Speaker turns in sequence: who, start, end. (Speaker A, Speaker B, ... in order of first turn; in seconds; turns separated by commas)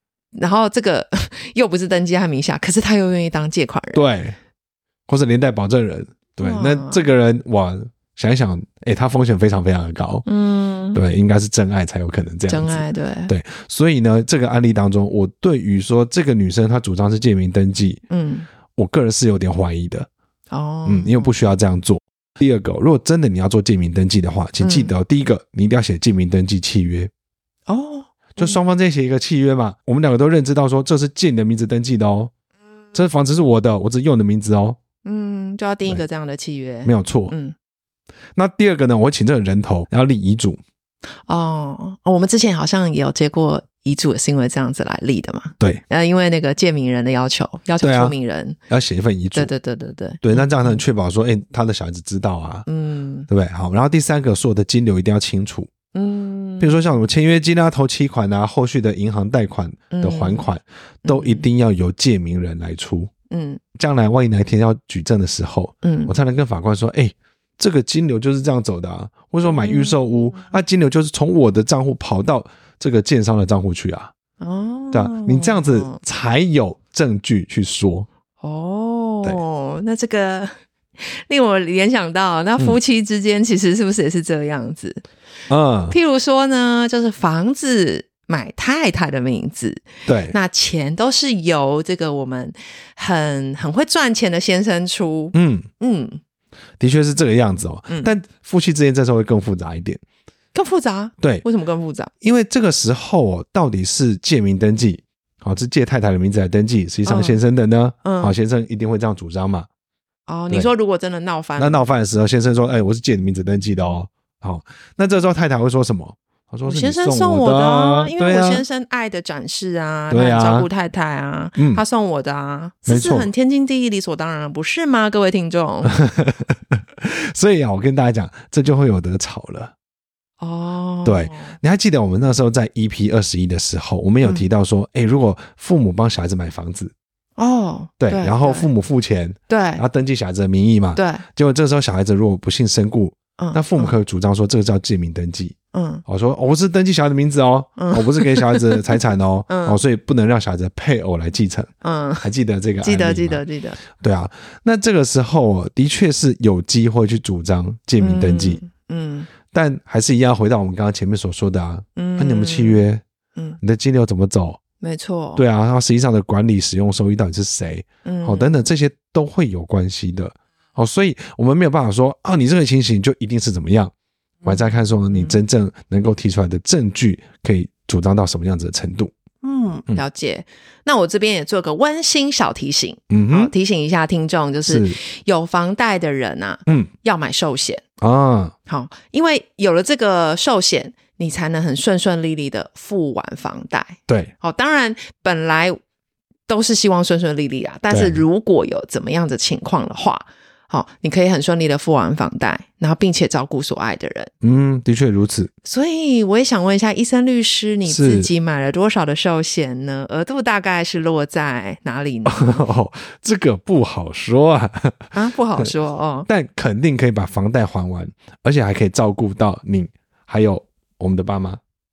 Speaker A: 0.3-4.0, Speaker B: 3.9-4.4, Speaker B: 5.1-10.2, Speaker A: 6.4-7.1, Speaker A: 10.2-11.0, Speaker B: 10.9-18.0, Speaker A: 12.5-13.3, Speaker A: 18.1-18.5, Speaker B: 18.8-20.1, Speaker A: 20.5-21.3, Speaker B: 20.9-27.1, Speaker A: 24.6-24.9, Speaker A: 27.7-28.6, Speaker B: 28.4-32.3, Speaker B: 32.9-34.8, Speaker A: 35.0-37.5, Speaker B: 36.9-37.3, Speaker B: 38.4-40.6, Speaker A: 41.3-48.6, Speaker B: 47.8-48.1, Speaker B: 48.7-49.5, Speaker A: 49.3-50.8, Speaker B: 50.2-52.7, Speaker A: 52.7-53.3, Speaker B: 53.3-55.7, Speaker A: 55.9-56.8, Speaker B: 56.6-63.1, Speaker A: 59.9-60.5, Speaker A: 61.0-61.5, Speaker A: 63.3-63.6, Speaker B: 63.8-74.1, Speaker A: 65.8-66.1, Speaker A: 69.4-70.0, Speaker A: 74.4-76.0, Speaker B: 74.9-78.1, Speaker A: 78.4-85.0, Speaker B: 85.5-86.0, Speaker A: 85.9-96.2, Speaker B: 90.0-90.4, Speaker B: 95.3-95.7, Speaker B: 96.8-100.0, Speaker A: 97.9-98.1, Speaker A: 100.5-102.1, Speaker B: 101.2-101.5, Speaker B: 102.2-109.7, Speaker A: 107.0-107.4, Speaker A: 108.0-108.3, Speaker A: 110.3-111.9, Speaker B: 111.6-118.6, Speaker A: 116.7-125.9, Speaker B: 120.1-120.7, Speaker B: 121.6-121.8, Speaker B: 122.9-123.3, Speaker B: 125.9-129.7, Speaker A: 130.4-131.6, Speaker B: 131.1-136.9, Speaker A: 137.4-138.7, Speaker B: 138.0-145.6, Speaker A: 139.5-139.8, Speaker A: 140.9-141.2, Speaker A: 143.4-143.9, Speaker A: 145.7-146.0, Speaker B: 146.1-151.7, Speaker A: 147.8-149.8, Speaker A: 151.8-152.3, Speaker B: 152.2-158.6, Speaker A: 152.8-153.8, Speaker A: 158.0-159.3, Speaker B: 159.5-163.0, Speaker A: 162.0-162.8, Speaker B: 163.6-164.6, Speaker A: 164.8-165.4, Speaker B: 165.4-173.9, Speaker A: 168.1-168.7, Speaker A: 174.4-175.4, Speaker B: 174.4-179.1, Speaker A: 179.4-187.8, Speaker B: 183.1-183.5, Speaker B: 184.7-185.0, Speaker B: 188.0-188.5, Speaker A: 188.7-195.8, Speaker A: 196.5-204.3, Speaker B: 197.9-198.2, Speaker B: 204.4-205.5, Speaker A: 205.6-212.7, Speaker B: 207.9-208.3, Speaker B: 212.3-215.7, Speaker A: 215.1-216.3, Speaker B: 216.3-221.6